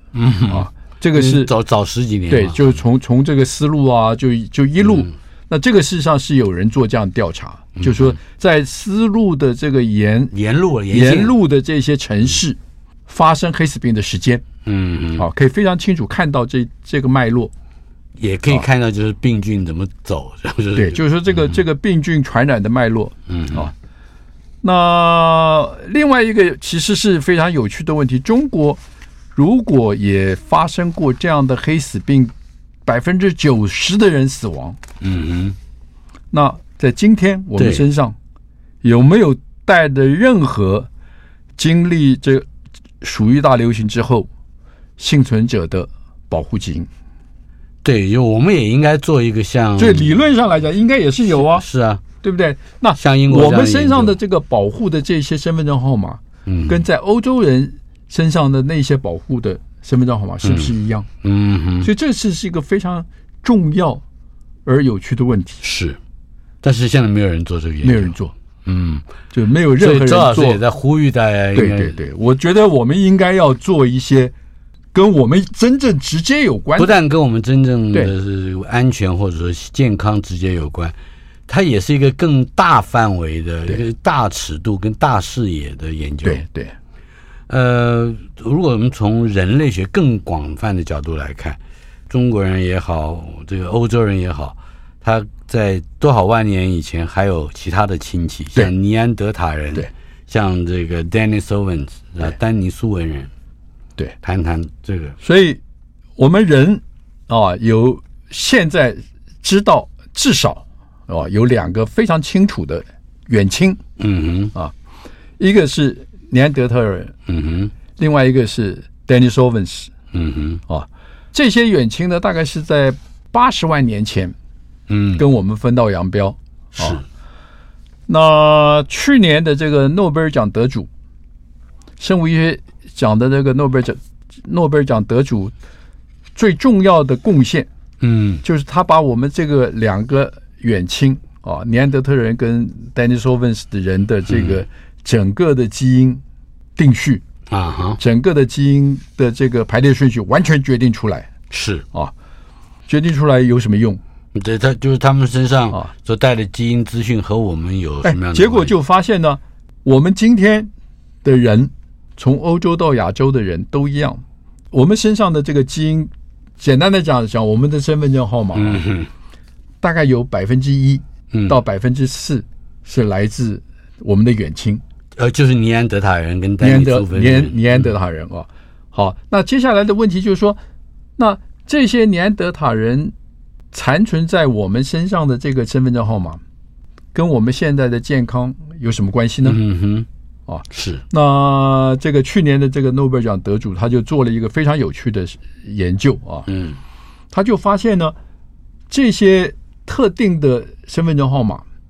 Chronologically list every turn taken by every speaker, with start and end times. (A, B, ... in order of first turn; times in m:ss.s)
0:00.1-0:02.8 A
0:00.5-0:01.5 B
0:02.3-0:10.3 B
0:04.8-0:05.1 A
0:07.8-0:08.2 A
0:10.3-0:11.4 A
0:10.9-0:14.4 B
0:14.6-0:15.2 A
0:15.2-0:17.5 B
0:18.2-0:21.6 A
0:20.8-0:23.7 B
0:23.3-0:23.7 A
0:24.6-0:28.8 B
0:29.3-0:32.3 B
0:32.8-0:34.8 B
0:35.0-0:35.6 A
0:36.3-0:38.2 B
0:37.6-0:37.8 A
0:38.8-0:40.9 B
0:41.6-0:42.4 B
0:43.0-0:44.3 B
0:45.0-0:46.9 B
0:47.8-0:50.2 A
0:49.8-0:51.6 B
0:51.3-0:52.0 A
0:52.2-1:01.1 B
0:53.0-0:54.2 A
0:56.4-0:56.8 A
1:00.4-1:01.9 A
1:01.8-1:04.0 B
1:04.6-1:05.6 B
1:05.6-1:06.0 A
1:06.6-1:09.0 A
1:07.8-1:08.3 B
1:09.3-1:10.6 B
1:09.8-1:12.0 A
1:11.5-1:14.3 B
1:14.9-1:17.0 B
1:16.8-1:21.0 A
1:21.5-1:26.4 A
1:26.2-1:26.7 B
1:27.5-1:43.3 A
1:44.2-1:45.2 A
1:45.2-1:45.6 B
1:46.2-1:53.8 B
1:54.0-1:54.5 A
1:55.4-1:57.1 B
1:57.3-1:57.7 A
1:58.0-1:59.9 B
2:00.1-2:00.6 A
2:00.7-2:04.3 B
2:04.9-2:05.2 A
2:05.2-2:07.0 B
2:06.8-2:07.0 A
2:08.1-2:10.9 B
2:12.0-2:15.5 B
2:16.3-2:17.7 B
2:18.0-2:18.4 A
2:18.4-2:26.2 B
2:24.3-2:24.6 A
2:26.8-2:27.2 B
2:27.5-2:28.0 A
2:28.0-2:31.3 B
2:31.5-2:31.8 A
2:32.9-2:34.0 B
2:34.3-2:38.7 A
2:38.0-2:40.7 B
2:41.2-2:48.8 B
2:48.5-2:49.1 A
2:49.8-2:54.8 B
2:51.3-2:51.6 A
2:55.2-2:57.9 A
2:56.6-3:00.6 B
3:01.2-3:03.1 B
3:03.7-3:06.4 B
3:07.1-3:09.6 B
3:09.4-3:10.1 A
3:10.5-3:16.5 B
3:10.7-3:11.0 A
3:16.5-3:16.8 A
3:17.3-3:18.1 B
3:18.9-3:21.6 B